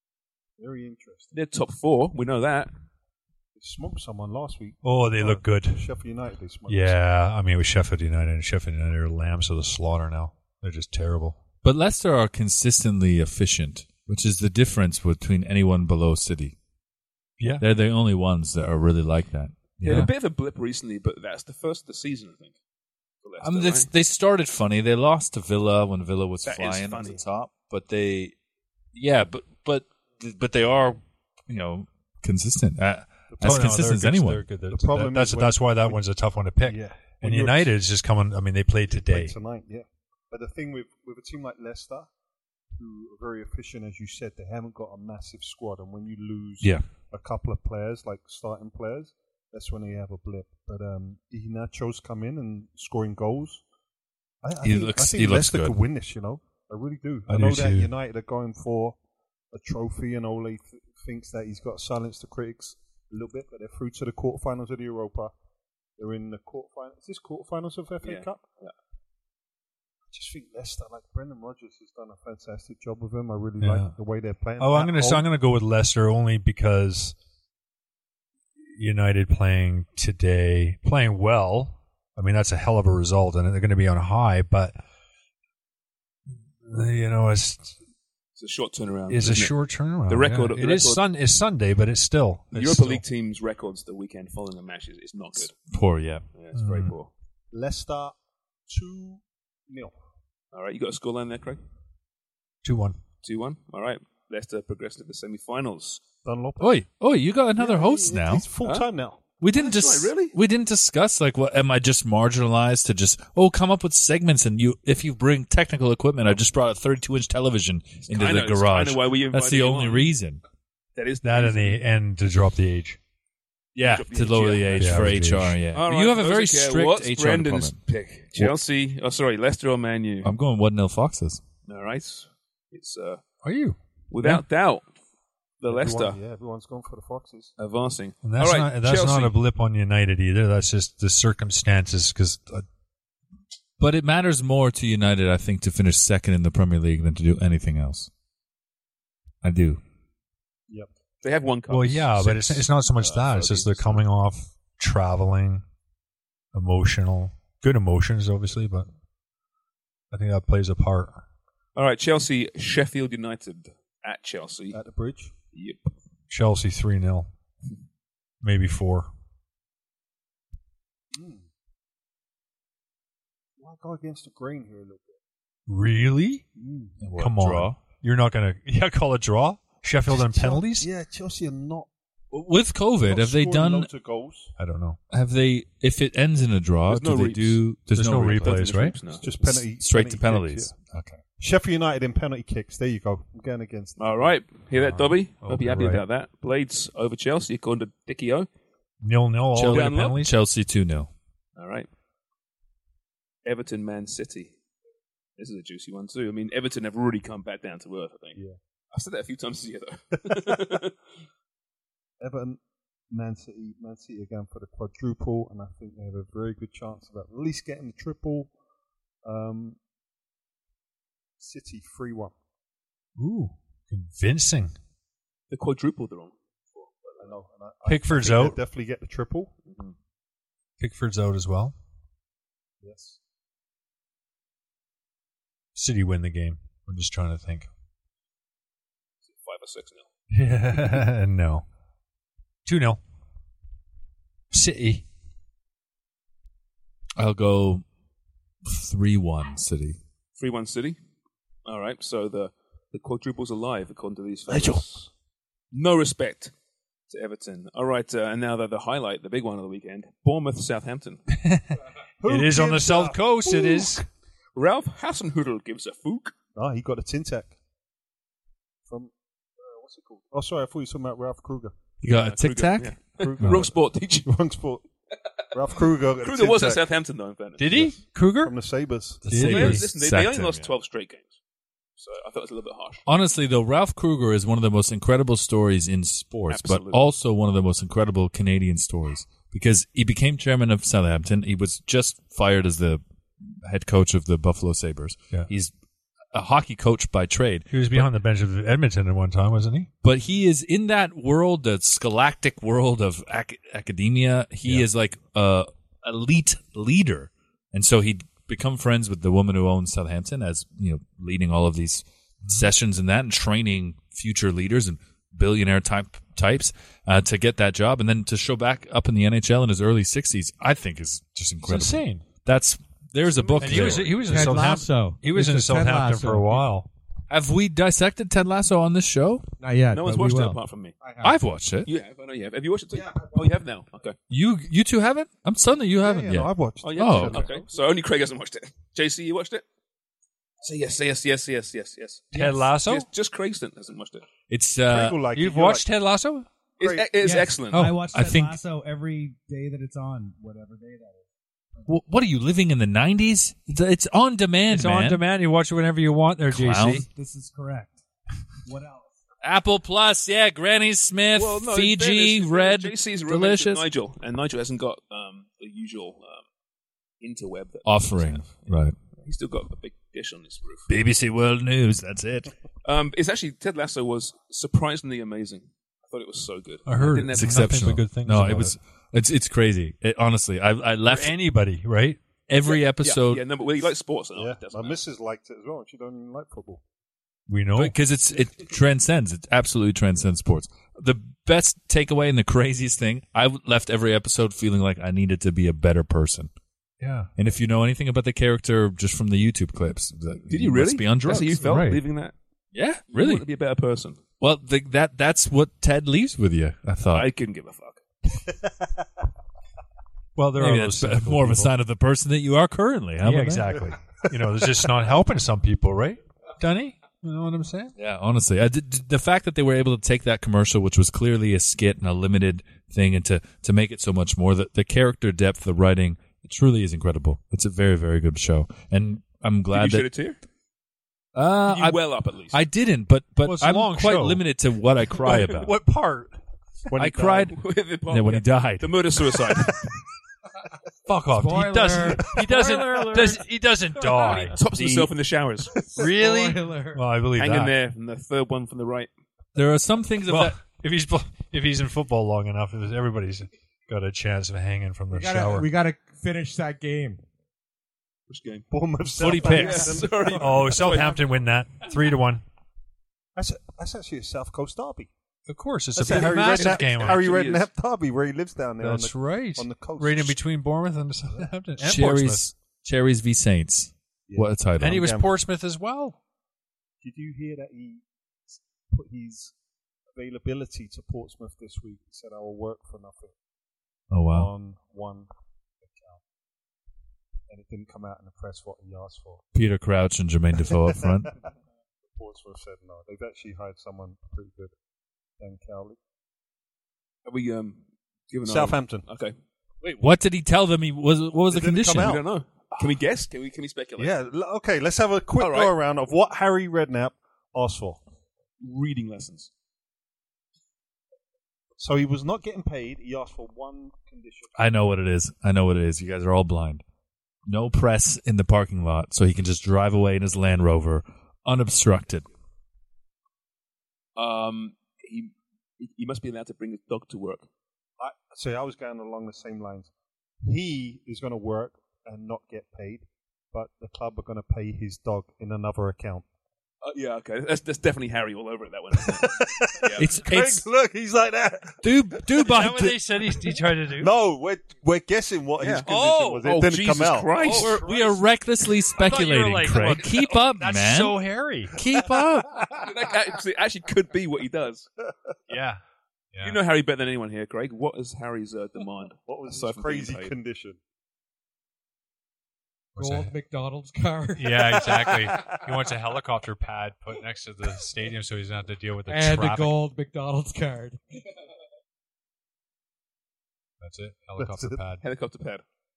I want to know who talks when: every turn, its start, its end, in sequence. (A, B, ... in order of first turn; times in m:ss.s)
0:00.6-0:01.4 A
0:01.3-0:02.7 B
0:03.6-0:07.0 A
0:04.8-0:05.9 C
0:06.7-0:11.4 C
0:11.6-0:16.6 D
0:17.4-0:17.6 C
0:17.6-0:20.1 D
0:19.8-0:22.6 B
0:23.2-0:23.9 B
0:23.4-0:28.4 D
0:26.4-0:27.2 B
0:28.9-0:34.5 D
0:33.3-0:33.9 A
0:33.4-0:39.4 C
0:34.7-0:36.0 A
0:36.6-0:37.7 A
0:38.9-0:42.1 A
0:42.7-0:53.6 A
0:54.4-0:59.0 A
0:54.6-0:55.8 D
0:57.3-0:57.9 C
0:59.5-1:05.3 A
1:06.0-1:08.4 A
1:08.0-1:08.7 B
1:10.1-1:15.3 A
1:13.6-1:14.0 C
1:14.6-1:17.2 C
1:18.7-1:24.8 C
1:26.6-1:27.8 C
1:28.4-1:31.0 B
1:29.1-1:33.0 C
1:32.5-1:35.6 B
1:35.7-1:36.2 D
1:36.4-1:37.1 B
1:36.6-1:36.9 C
1:37.5-1:38.2 A
1:38.7-1:39.9 A
1:40.5-1:41.6 B
1:42.6-1:43.0 C
1:43.2-1:46.0 B
1:46.2-1:46.9 A
1:46.6-1:48.5 D
1:47.6-1:49.2 A
1:49.4-2:00.4 D
1:49.5-1:50.4 B
1:58.1-2:00.1 B
2:01.0-2:01.8 B
2:01.2-2:03.0 C
2:03.8-2:07.8 D
2:03.8-2:05.2 B
2:04.8-2:05.6 C
2:05.7-2:10.4 B
2:10.2-2:11.4 D
2:11.7-2:13.2 B
2:13.4-2:13.8 C
2:14.1-2:14.9 B
2:15.6-2:16.2 B
2:15.7-2:17.5 A
2:17.6-2:19.4 B
2:18.2-2:22.6 C
2:23.8-2:28.1 D
2:29.4-2:29.8 D
2:31.2-2:34.0 B
2:31.7-2:35.6 C
2:36.5-2:38.9 C
2:40.1-2:41.2 C
2:41.8-2:44.8 B
2:44.7-2:45.3 A
2:45.5-2:45.9 B
2:46.3-2:47.3 C
2:48.4-2:49.1 C
2:51.1-2:51.5 A
2:53.6-2:55.2 A
2:55.7-2:56.5 C
2:56.6-2:57.0 A
2:57.0-2:57.8 D
2:57.2-3:00.9 C
3:00.1-3:01.9 A
3:02.3-3:03.9 D
3:03.0-3:04.5 A
3:04.6-3:05.0 C
3:05.1-3:08.8 D
3:06.9-3:07.6 B
3:07.9-3:09.0 C
3:08.2-3:09.4 B
3:09.2-3:10.7 A
3:09.4-3:11.2 D
3:11.4-3:14.3 A
3:14.0-3:18.5 B
3:14.7-3:16.0 C
3:19.0-3:20.3 C
3:19.5-3:21.1 D
3:19.7-3:20.2 B
3:21.6-3:21.9 B
3:23.4-3:24.5 B
3:25.4-3:28.4 B
3:28.9-3:30.9 B
3:30.3-3:30.6 A
3:32.2-3:32.6 A
3:33.1-3:38.5 A
3:39.2-3:39.8 A
3:41.4-3:42.3 A
3:43.2-3:44.8 C
3:45.5-3:47.4 B
3:47.2-3:49.5 A
3:47.9-3:48.6 C
3:49.7-3:50.0 B
3:50.8-3:51.8 C
3:52.8-3:53.2 A
3:55.8-3:57.7 C
3:59.3-4:00.1 B
4:00.3-4:01.6 C
4:02.7-4:03.0 C
4:04.5-4:05.1 C
4:07.2-4:07.8 D
4:08.6-4:10.0 D
4:10.4-4:11.0 B
4:11.7-4:14.9 B
4:14.5-4:15.1 A
4:15.7-4:16.5 B
4:17.1-4:21.2 B
4:21.4-4:21.7 C
4:22.2-4:23.9 A
4:22.2-4:24.1 C
4:24.6-4:26.3 B
4:26.6-4:27.6 A
4:28.9-4:31.8 A
4:32.0-4:33.0 D
4:32.1-4:34.3 B
4:33.2-4:34.9 A
4:35.5-4:36.8 A
4:36.2-4:37.9 B
4:37.6-4:38.6 C
4:37.7-4:39.4 A
4:39.2-4:40.7 D
4:39.2-4:39.8 C
4:39.4-4:41.4 B
4:42.0-4:43.0 B
4:43.1-4:55.7 D
4:46.5-4:47.1 B
4:56.3-4:58.1 D
4:57.7-4:59.9 C
5:00.0-5:24.4 D
5:21.7-5:22.2 C
5:23.3-5:24.2 B
5:23.6-5:26.9 C
5:24.2-5:26.7 E
5:27.3-5:29.5 D
5:29.6-5:31.4 E
5:29.9-5:31.0 B
5:31.2-5:31.9 D
5:31.9-5:34.2 B
5:34.3-5:37.4 D
5:36.0-5:37.6 A
5:36.8-5:39.6 B
5:40.6-5:44.2 B
5:42.3-5:43.1 C
5:44.5-5:45.2 D
5:44.9-5:45.9 A
5:45.3-5:46.5 C
5:46.8-5:47.9 B
5:46.8-5:47.1 A
5:47.2-5:51.3 E
5:47.7-5:48.6 D
5:51.9-5:55.2 D
5:54.7-5:57.0 C
5:56.5-5:57.1 D
5:57.0-5:58.0 E
5:58.7-5:59.1 E
5:59.4-6:03.9 D
6:01.3-6:06.4 B
6:07.2-6:10.9 B
6:07.9-6:09.0 D
6:10.9-6:12.5 D
6:12.8-6:17.8 B
6:16.9-6:18.8 C
6:17.3-6:21.4 D
6:21.1-6:22.2 C
6:22.5-6:23.4 D
6:22.7-6:25.0 B
6:24.4-6:26.8 A
6:27.5-6:27.9 C
6:27.8-6:36.5 D
6:37.0-6:37.3 C
6:37.4-6:41.6 D
6:40.5-6:42.3 B
6:41.5-6:42.0 C
6:42.7-6:43.4 D
6:43.1-6:44.2 B
6:44.4-6:47.3 D
6:47.1-6:48.0 B
6:48.5-6:48.9 A
6:50.4-6:51.7 C
6:50.6-6:53.9 D
6:53.2-6:57.9 C
6:58.0-7:10.1 D
7:09.7-7:10.4 B
7:11.4-7:15.7 D
7:11.6-7:12.6 B
7:13.4-7:14.4 C
7:15.3-7:16.4 C
7:16.9-7:17.5 A
7:17.0-7:17.6 D
7:17.2-7:19.9 B
7:18.1-7:19.0 D
7:21.1-7:25.1 C
7:21.3-7:24.6 E
7:24.5-7:25.8 B
7:25.7-7:27.1 E
7:26.0-7:27.7 C
7:27.4-7:29.1 B
7:29.6-7:30.6 D
7:30.3-7:35.7 C
7:35.1-7:37.2 E
7:38.3-7:38.7 B
7:38.7-7:41.1 A
7:39.2-7:39.9 D
7:39.3-7:42.4 C
7:39.3-7:41.3 B
7:43.4-7:45.1 A
7:45.5-7:47.2 C
7:46.0-7:50.4 A
7:46.0-7:47.7 B
7:48.8-7:52.5 C
7:51.8-7:55.1 D
7:54.3-7:55.3 A
7:54.8-7:56.2 C
7:57.0-7:58.1 A
7:58.9-7:59.5 A
8:00.1-8:03.4 A
8:04.1-8:04.5 D
8:04.3-8:06.2 A
8:07.5-8:09.5 A
8:09.5-8:11.3 D
8:10.6-8:11.4 A
8:12.1-8:14.8 A
8:15.4-8:16.0 A
8:17.2-8:19.4 B
8:18.4-8:19.1 A
8:19.8-8:22.2 D
8:21.5-8:23.0 A
8:21.9-8:24.2 B
8:24.0-8:28.0 A
8:25.4-8:25.8 B
8:28.6-8:29.5 B
8:31.8-8:34.6 A
8:34.6-8:36.8 D
8:37.5-8:42.3 D
8:44.2-8:47.5 B
8:48.0-8:49.9 A
8:50.4-8:56.3 A
8:56.8-9:00.1 B
8:59.0-9:07.6 A
9:00.0-9:00.7 D
9:01.8-9:03.0 D
9:02.4-9:04.1 C
9:05.6-9:07.9 B
9:05.9-9:06.4 C
9:07.4-9:08.2 C
9:07.6-9:11.2 D
9:08.9-9:11.8 C
9:11.7-9:12.7 D
9:12.8-9:14.9 B
9:15.5-9:15.8 C
9:16.3-9:16.6 C
9:16.4-9:20.3 B
9:19.3-9:20.8 A
9:23.0-9:23.3 C
9:23.0-9:25.0 E
9:24.4-9:29.8 C
9:29.1-9:31.0 E
9:33.8-9:35.0 C
9:34.4-9:34.8 A
9:35.0-9:35.6 B